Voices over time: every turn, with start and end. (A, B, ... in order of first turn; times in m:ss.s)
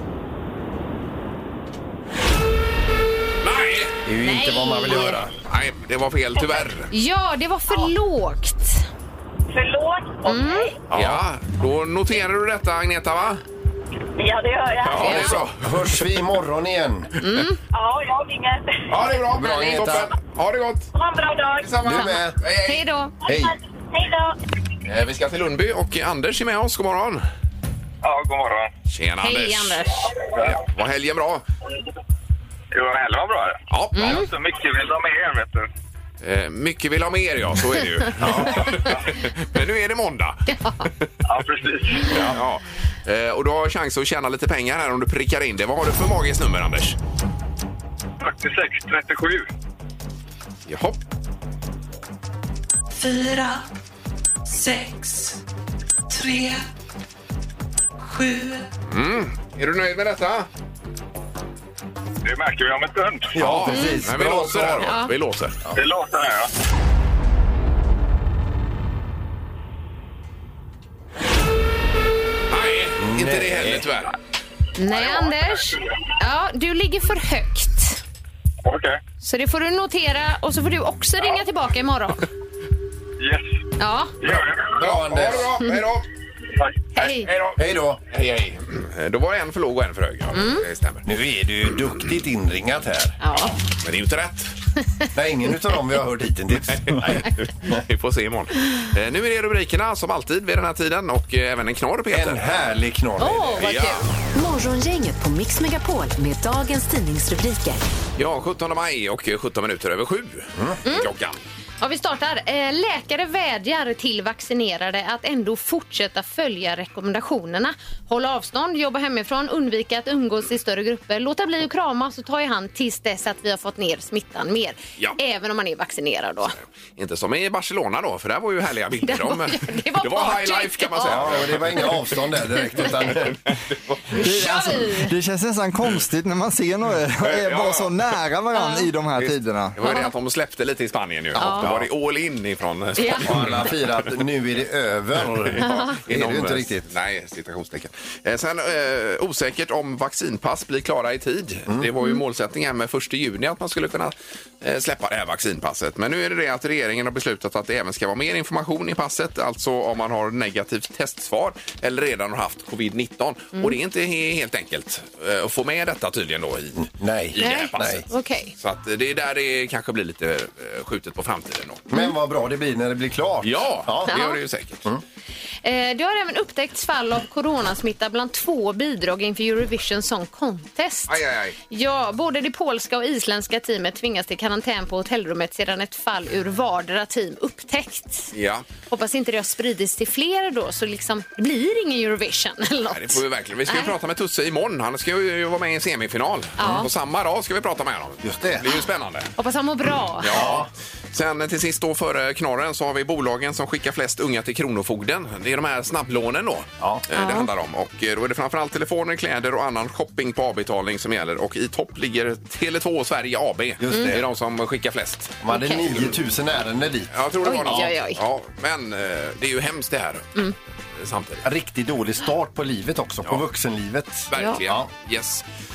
0:03.4-0:04.0 A
0:04.0-0:05.3 B
0:04.2-0:05.2 C
0:04.9-0:06.9 A
0:06.9-0:08.8 C
0:09.5-0:10.8 D
0:10.2-0:10.7 C
0:10.9-0:11.2 B
0:10.9-0:13.4 A
0:14.2-0:15.4 D
0:14.8-0:16.0 A
0:15.0-0:15.3 C
0:15.0-0:17.1 B
0:17.2-0:17.6 C
0:17.7-0:19.0 D
0:18.9-0:20.9 A
0:19.3-0:20.1 B
0:20.9-0:21.8 D
0:21.6-0:22.8 A
0:21.8-0:22.4 B
0:21.9-0:23.1 C
0:23.2-0:24.4 D
0:23.2-0:23.5 B
0:24.8-0:27.2 A
0:28.0-0:28.7 E
0:28.9-0:31.4 A
0:29.2-0:30.1 C
0:32.7-0:35.7 E
0:33.7-0:34.2 A
0:34.0-0:34.3 C
0:36.2-0:40.4 A
0:38.2-0:38.5 B
0:40.5-0:40.8 C
0:41.2-0:42.1 E
0:42.1-0:42.4 B
0:42.1-0:47.0 A
0:48.2-0:49.4 E
0:50.7-0:51.0 A
0:52.9-0:53.6 F
0:54.4-0:55.4 F
0:56.1-0:56.6 F
0:58.0-0:58.6 F
0:58.9-1:00.5 A
1:02.2-1:03.3 E
1:03.3-1:04.9 B
1:03.4-1:05.6 A
1:03.7-1:04.0 C
1:04.8-1:05.1 C
1:05.7-1:06.5 E
1:12.5-1:14.1 A
1:13.0-1:13.8 B
1:14.8-1:18.0 C
1:18.6-1:19.0 E
1:19.2-1:22.3 C
1:23.2-1:23.5 E
1:23.8-1:24.1 C
1:24.2-1:24.8 E
1:24.4-1:26.0 A
1:24.8-1:25.6 B
1:26.9-1:27.3 C
1:27.0-1:31.0 A
1:27.6-1:28.0 B
1:30.3-1:30.6 C
1:31.0-1:33.2 B
1:33.2-1:33.6 C
1:33.8-1:34.5 A
1:35.1-1:37.8 B
1:36.7-1:42.4 A
1:42.1-1:43.7 B
1:43.2-1:44.0 C
1:43.6-1:44.0 A
1:44.3-1:47.8 G
1:48.2-1:51.4 A
1:50.8-1:51.1 C
1:51.8-2:06.5 C
2:07.0-2:11.9 A
2:09.0-2:11.3 C
2:11.0-2:13.4 B
2:12.8-2:14.0 A
2:14.1-2:19.8 H
2:14.1-2:15.1 C
2:17.2-2:17.9 A
2:18.5-2:18.9 C
2:19.2-2:24.1 A
2:19.8-2:20.1 C
2:21.4-2:21.7 C
2:21.6-2:21.9 B
2:23.0-2:23.4 C
2:23.2-2:26.9 B
2:25.4-2:51.9 A
2:25.6-2:25.9 C
2:46.8-2:48.0 B
2:47.4-2:48.5 C
2:51.9-2:54.1 B
2:53.4-2:54.8 A
2:54.1-2:54.4 C
2:55.6-3:01.2 C
3:01.1-3:01.6 A
3:01.7-3:08.3 C
3:08.3-3:08.6 A
3:08.9-3:13.9 C
3:12.9-3:19.3 A
3:16.6-3:16.9 C
3:18.2-3:18.6 B
3:19.4-3:20.3 C
3:20.2-3:36.2 A
3:20.3-3:20.7 B
3:27.1-3:27.5 C
3:33.8-3:34.2 B
3:35.4-3:37.1 B
3:35.5-3:35.8 C
3:37.1-3:40.3 A
3:37.4-3:38.2 C
3:37.6-3:37.9 B
3:41.0-3:41.4 A
3:41.4-3:44.9 B
3:44.3-3:45.4 A
3:44.4-3:44.6 C